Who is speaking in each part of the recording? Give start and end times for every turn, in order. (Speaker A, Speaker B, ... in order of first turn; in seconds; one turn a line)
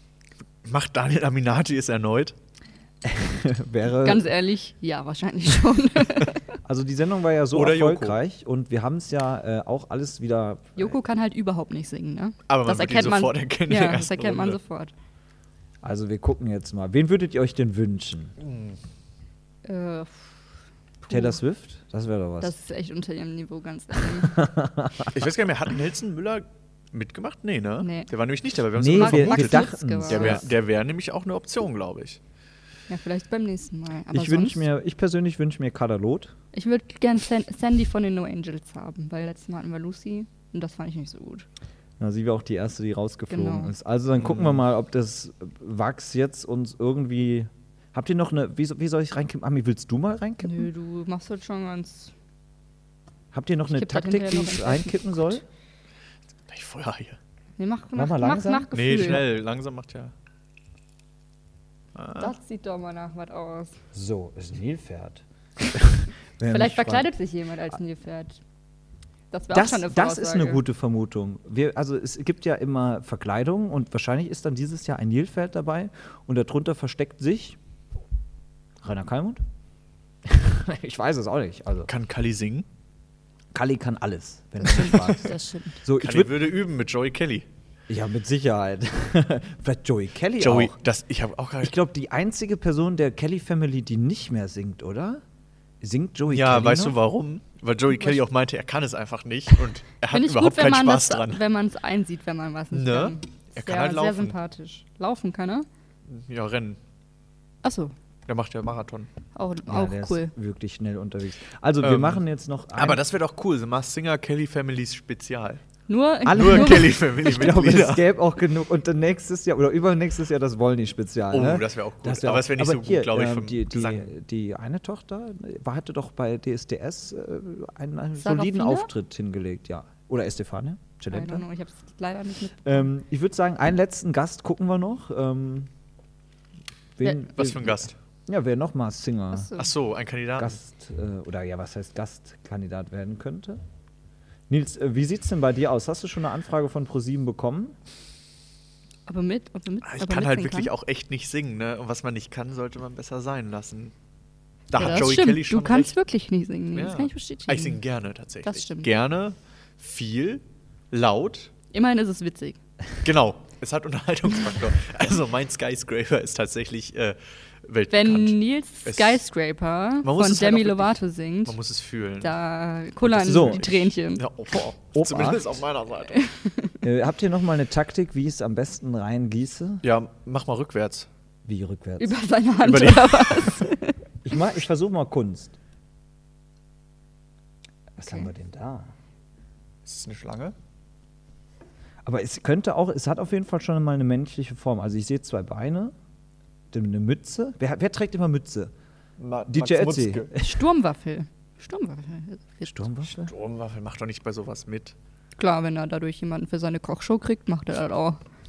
Speaker A: 0.6-2.3
Speaker B: 3.0-4.3
Speaker C: 4.0-6.4
Speaker B: 6.6-10.9
Speaker A: 7.5-8.2
Speaker C: 10.8-14.9
Speaker A: 12.5-14.6
Speaker B: 15.8-18.3
Speaker A: 18.4-18.8
Speaker C: 19.6-20.3
Speaker C: 21.0-21.4
Speaker B: 21.1-22.5
Speaker C: 22.4-24.4
Speaker B: 24.2-25.1
Speaker A: 25.1-32.2
Speaker C: 27.8-28.1
Speaker B: 28.8-30.5
Speaker C: 28.9-30.4
Speaker C: 32.9-34.6
Speaker B: 34.1-36.3
Speaker C: 36.5-41.5
Speaker B: 42.0-50.7
Speaker C: 43.3-43.7
Speaker A: 44.2-44.5
Speaker C: 50.4-52.1
Speaker B: 53.3-55.4
Speaker C: 53.7-55.4
Speaker A: 56.5-57.2
Speaker C: 57.6-59.2
Speaker B: 58.0-59.2
Speaker A: 58.7-60.1
Speaker A: 61.9-62.3
Speaker C: 62.2-63.7
Speaker B: 63.9-67.1
Speaker C: 66.5-68.4
Speaker C: 69.3-70.6
Speaker B: 69.5-77.6
Speaker B: 78.8-79.4
Speaker B: 80.2-81.9
Speaker A: 81.9-82.7
Speaker B: 83.5-86.4
Speaker C: 84.6-85.8
Speaker A: 85.9-87.5
Speaker B: 87.9-90.7
Speaker A: 90.4-91.8
Speaker B: 91.6-95.2
Speaker B: 95.8-97.0
Speaker A: 96.3-101.4
Speaker C: 100.1-105.7
Speaker A: 102.7-104.3
Speaker A: 106.1-106.8
Speaker C: 107.6-107.9
Speaker A: 108.3-109.1
Speaker C: 109.3-110.3
Speaker B: 109.7-113.0
Speaker A: 111.8-112.2
Speaker A: 112.7-115.6
Speaker C: 115.9-117.3
Speaker A: 116.2-118.0
Speaker B: 116.2-131.4
Speaker A: 121.3-124.1
Speaker C: 128.2-128.9
Speaker C: 131.1-132.9
Speaker B: 132.6-135.7
Speaker B: 137.0-139.5
Speaker A: 137.3-137.9
Speaker C: 139.3-139.7
Speaker A: 139.6-140.6
Speaker B: 140.4-143.6
Speaker B: 144.5-147.7
Speaker C: 149.1-150.7
Speaker A: 149.8-153.9
Speaker A: 154.7-155.9
Speaker C: 154.8-157.8
Speaker A: 156.7-161.5
Speaker C: 158.4-158.9
Speaker C: 161.7-162.6
Speaker A: 163.0-169.2
Speaker C: 167.9-171.6
Speaker A: 170.0-170.9
Speaker A: 171.4-172.3
Speaker C: 172.2-174.2
Speaker A: 173.1-176.2
Speaker B: 173.1-173.7
Speaker B: 174.9-175.4
Speaker C: 176.1-176.8
Speaker B: 176.8-179.8
Speaker A: 179.8-181.1
Speaker B: 181.4-182.2
Speaker C: 182.0-184.0
Speaker A: 182.6-183.5
Speaker B: 184.2-185.6
Speaker B: 188.0-188.9
Speaker A: 189.8-190.5
Speaker B: 192.0-195.9
Speaker B: 196.7-198.7
Speaker A: 199.2-200.3
Speaker B: 199.5-200.5
Speaker C: 200.3-203.3
Speaker B: 202.6-203.3
Speaker A: 203.2-204.9
Speaker C: 205.4-208.2